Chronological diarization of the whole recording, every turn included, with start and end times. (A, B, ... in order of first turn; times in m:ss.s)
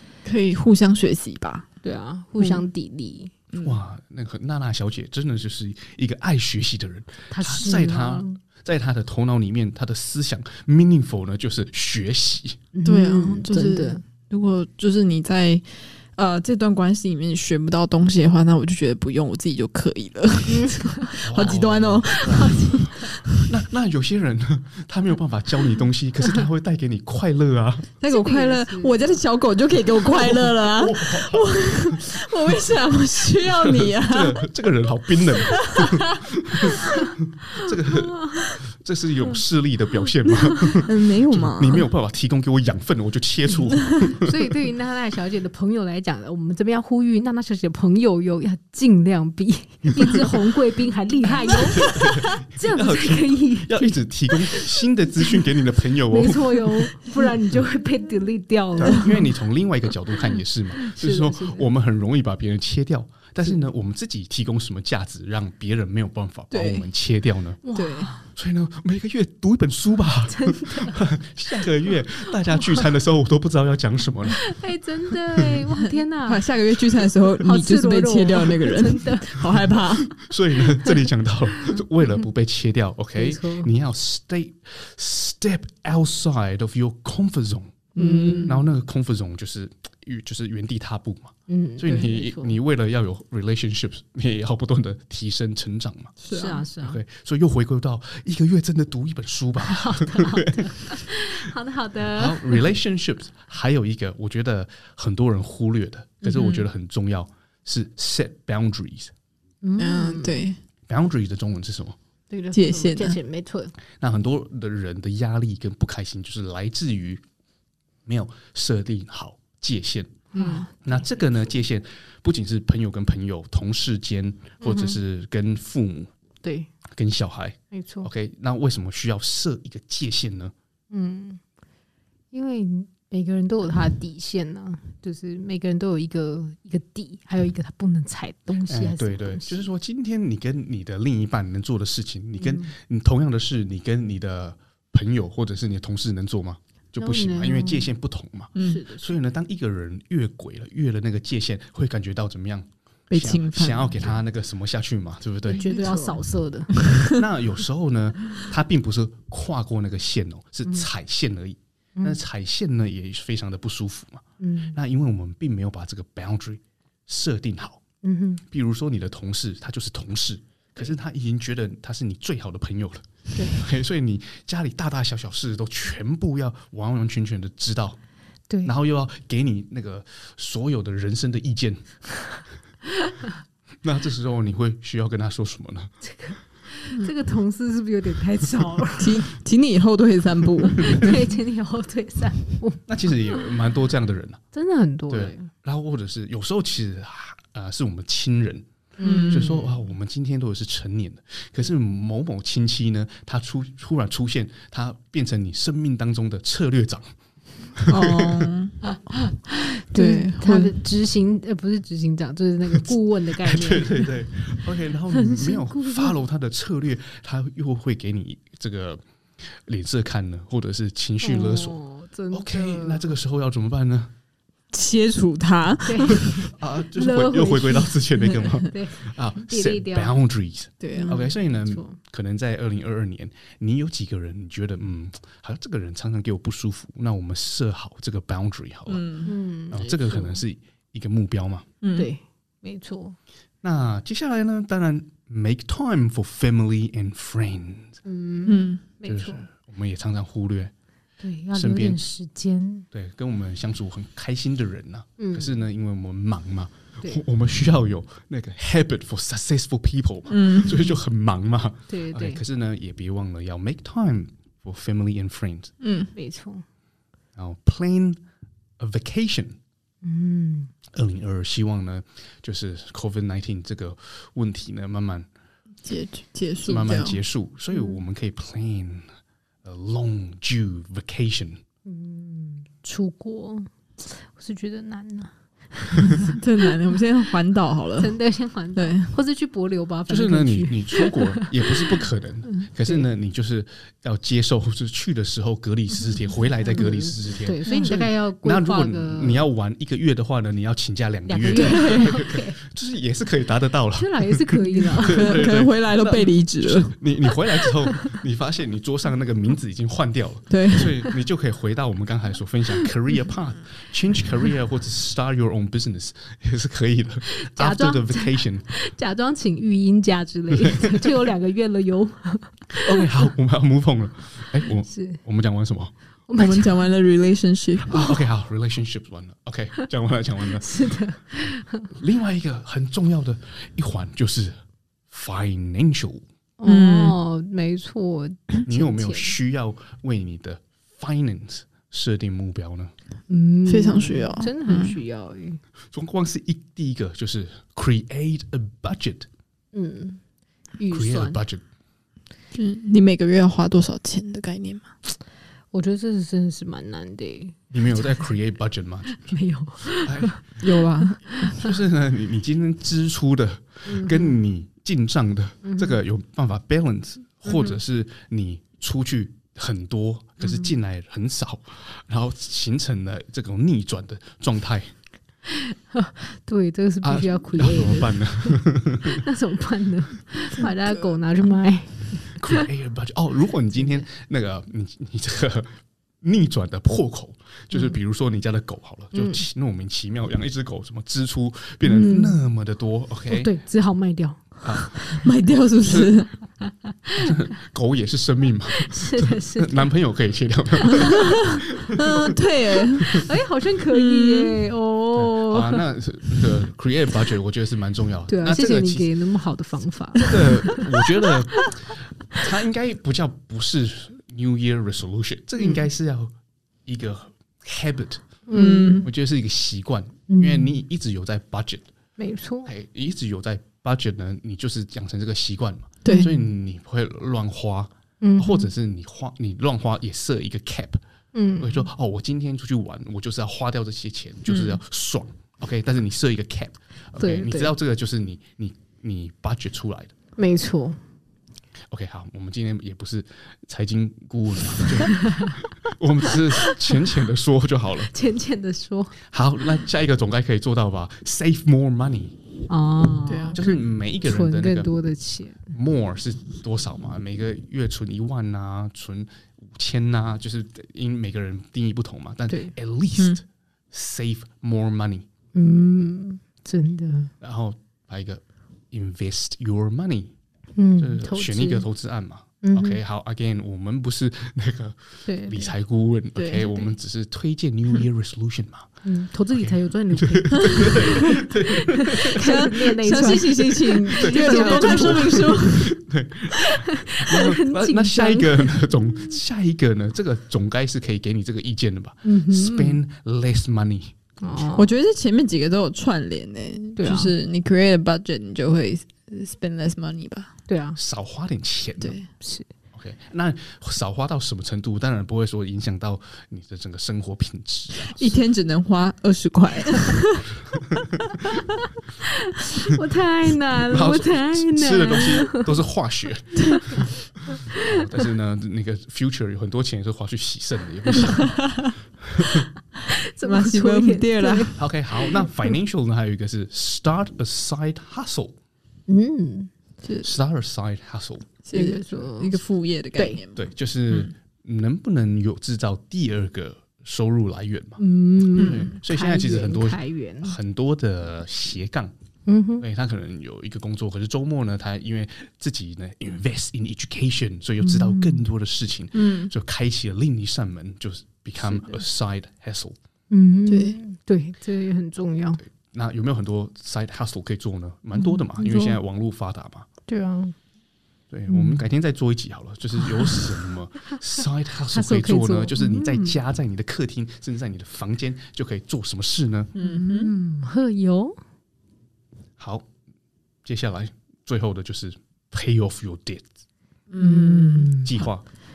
0:00.2-0:01.7 A
0:01.8-0:03.3 B
0:03.6-0:12.6 C
0:07.3-0:08.4 B
0:12.7-0:14.0 B
0:12.8-0:23.4 A
0:20.5-0:21.2 B
0:21.2-0:27.9 C
0:22.2-0:22.9 B
0:28.0-0:34.4 A
0:28.0-0:29.1 B
0:30.2-0:31.6 C
0:33.5-0:44.3 C
0:35.6-0:36.2 A
0:36.7-0:37.0 A
0:40.6-0:41.9 A
0:44.2-0:55.4 B
0:51.6-0:56.9 C
0:56.1-0:59.3 B
0:58.8-1:07.6 C
1:00.8-1:01.7 B
1:06.5-1:06.9 A
1:07.6-1:08.2 B
1:07.7-1:08.2 A
1:08.3-1:14.5 C
1:10.3-1:11.0 B
1:14.4-1:16.5 B
1:15.8-1:20.2 A
1:17.4-1:19.5 B
1:20.2-1:27.9 C
1:23.1-1:23.7 B
1:27.9-1:28.6 A
1:28.0-1:28.6 B
1:28.4-1:36.1 C
1:31.5-1:32.6 B
1:36.2-1:36.7 A
1:36.3-1:37.0 B
1:36.8-1:41.4 C
1:39.7-1:42.7 B
1:42.1-1:49.1 C
1:46.3-1:46.6 A
1:49.6-1:50.5 B
1:49.8-1:50.6 A
1:50.9-1:52.0 C
1:52.3-1:53.7 B
1:52.5-1:53.2 A
1:54.0-1:57.2 C
1:58.0-2:00.2 C
2:00.3-2:01.1 B
2:00.3-2:00.7 A
2:00.8-2:06.1 C
2:04.6-2:05.0 B
2:06.4-2:06.7 B
2:06.9-2:10.5 C
2:07.7-2:08.1 B
2:10.9-2:11.4 B
2:12.3-2:19.7 B
2:18.7-2:35.6 C
2:22.4-2:22.7 B
2:27.0-2:27.9 B
2:28.6-2:28.8 A
2:28.6-2:29.2 B
2:33.1-2:34.1 A
2:35.5-2:36.7 B
2:35.6-2:36.2 A
2:36.8-2:37.1 A
2:37.1-2:47.8 C
2:44.4-2:44.8 B
2:48.0-2:48.4 B
2:48.5-2:58.0 C
2:58.6-3:01.8 C
3:03.8-3:05.9 C
3:06.0-3:09.2 B
3:09.0-3:11.2 A
3:10.8-3:13.4 B
3:10.8-3:11.1 C
3:12.9-3:14.4 C
3:14.5-3:15.5 B
3:15.1-3:18.7 C
3:19.0-3:19.7 B
3:19.0-3:19.6 A
3:19.3-3:27.1 C
3:27.7-3:28.5 C
3:27.9-3:28.8 A
3:28.9-3:34.1 B
3:29.9-3:30.7 A
3:33.4-3:41.8 C
3:35.1-3:36.2 B
3:41.2-3:43.1 B
3:42.3-3:44.1 C
3:44.7-3:46.5 A
3:45.8-3:50.2 B
3:46.4-3:59.0 C
3:50.8-3:51.2 A
3:50.9-3:52.0 B
3:58.9-3:59.3 A
3:59.2-4:00.4 B
3:59.7-4:01.6 C
4:01.8-4:02.1 A
4:01.9-4:03.2 B
4:03.6-4:08.0 C
4:08.0-4:09.4 B
4:08.4-4:08.8 A
4:09.0-4:10.7 C
4:11.2-4:12.9 B
4:11.5-4:12.0 C
4:12.9-4:25.7 C
4:15.2-4:15.5 B
4:20.3-4:20.8 A
4:21.9-4:22.4 B
4:25.8-4:26.1 A
4:26.1-4:26.6 B
4:27.4-4:28.2 C
4:28.8-4:29.6 C
4:30.0-4:30.7 B
4:30.9-4:35.3 C
4:35.8-4:37.2 A
4:36.6-4:37.0 B
4:36.6-4:39.1 C
4:37.7-4:38.0 B
4:39.6-4:41.6 C
4:41.8-4:46.4 B
4:46.3-4:48.2 A
4:48.0-4:53.1 B
4:48.7-4:49.1 A
4:50.1-5:18.7 C
4:56.7-4:59.4 B
4:57.6-4:57.9 A
5:01.3-5:02.6 B
5:01.4-5:02.2 A
5:04.0-5:05.5 B
5:05.0-5:07.0 A
5:10.5-5:11.0 A
5:17.3-5:23.1 B
5:20.6-5:21.1 C
5:22.7-5:25.9 C
5:24.8-5:25.2 B
5:26.3-5:26.8 B
5:26.4-5:28.1 A
5:27.9-5:30.9 C
5:30.6-5:31.9 B
5:31.9-5:34.6 C
5:35.1-5:36.2 C
5:36.6-5:39.3 B
5:36.6-5:37.2 A
5:38.6-5:42.9 C
5:43.3-5:45.6 B
5:43.6-5:45.0 A
5:45.9-5:49.3 C
5:49.7-5:50.2 B
5:50.8-5:51.4 B
5:50.9-5:51.6 C
5:52.5-5:54.9 A
5:55.7-5:58.2 B
5:57.7-5:59.3 C
5:59.1-6:00.4 B
5:59.9-6:00.4 C
6:00.6-6:01.5 A
6:01.3-6:01.7 B
6:01.5-6:14.9 C
6:03.9-6:04.3 B
6:05.6-6:06.0 B
6:10.4-6:10.7 B
6:15.5-6:22.6 B
6:17.0-6:19.2 C
6:20.6-6:21.1 A
6:22.3-6:33.5 C
6:23.7-6:24.0 B
6:29.1-6:29.4 B
6:31.9-6:32.4 A
6:31.9-6:32.3 B
6:33.3-6:34.6 B
6:34.6-6:35.2 C
6:35.1-6:36.3 A
6:35.8-6:36.1 C
6:37.1-6:42.3 C
6:38.8-6:39.9 B
6:41.0-6:41.2 B
6:41.9-6:43.2 A
6:43.1-6:45.8 B
6:43.9-6:44.6 A
6:45.1-6:49.1 C
6:48.3-6:51.0 B
6:50.2-6:56.3 C
6:56.8-6:58.4 C
6:58.5-6:59.1 B
6:58.5-6:59.1 A
6:59.0-7:01.9 C
7:00.3-7:00.7 B
7:02.2-7:02.7 B
7:02.6-7:11.0 C
7:06.0-7:06.4 A
7:06.0-7:06.3 B
7:08.2-7:08.7 B
7:11.3-7:11.9 B
7:11.6-7:20.1 C
7:17.2-7:17.7 B
7:20.4-7:21.0 B
7:21.9-7:28.1 C
7:25.2-7:25.5 B
7:28.1-7:29.2 B
7:29.3-7:32.4 C
7:32.7-7:35.7 B
7:33.2-7:33.7 A
7:33.5-7:34.9 C
7:35.7-7:45.2 C
7:42.5-7:42.7 B
7:45.5-7:47.3 B
7:47.4-7:50.3 C
7:50.8-7:51.9 B
7:51.0-7:58.9 C
7:52.6-7:53.0 B
7:55.2-7:55.7 B
7:56.3-7:56.8 A
7:59.0-8:05.7 B
7:59.5-8:02.6 C
8:00.8-8:01.3 A
8:02.2-8:05.9 A
8:04.1-8:14.1 C
8:06.5-8:08.9 B
8:12.2-8:13.0 B
8:14.4-8:14.9 B
8:14.7-8:20.5 A
8:17.0-8:17.3 B
8:20.7-8:21.0 B
8:21.0-8:22.2 C
8:22.0-8:22.3 A
8:22.4-8:22.7 B
8:22.9-8:28.3 C
8:28.1-8:30.5 A
8:32.5-8:35.7 B
8:33.9-8:41.6 C
8:42.2-8:42.7 C
8:43.1-8:45.4 B
8:43.4-8:44.8 A
8:44.8-8:48.6 C
8:49.1-8:49.7 B
8:50.0-8:50.3 A
8:50.2-8:51.5 C
8:51.6-8:53.7 A
8:51.7-8:52.6 B
8:53.1-8:53.4 B
8:53.5-8:58.0 C
8:58.0-9:00.6 B
8:58.6-8:58.9 A
8:58.6-9:02.1 C
9:02.4-9:02.8 B
9:02.8-9:13.0 C
9:07.8-9:08.4 B
9:09.1-9:09.5 A
9:11.6-9:12.0 B
9:13.3-9:15.6 B
9:13.7-9:14.0 A
9:15.6-9:19.9 C
9:18.2-9:19.0 B
9:20.1-9:20.5 B
9:21.3-9:29.7 C
9:21.5-9:21.8 B
9:23.0-9:23.5 B
9:24.9-9:26.4 B
9:29.7-9:30.3 A
9:29.8-9:31.4 B
9:32.6-9:32.8 C
9:33.6-9:36.4 C
9:37.1-9:38.3 A
9:37.2-9:38.1 B
9:38.0-9:38.4 C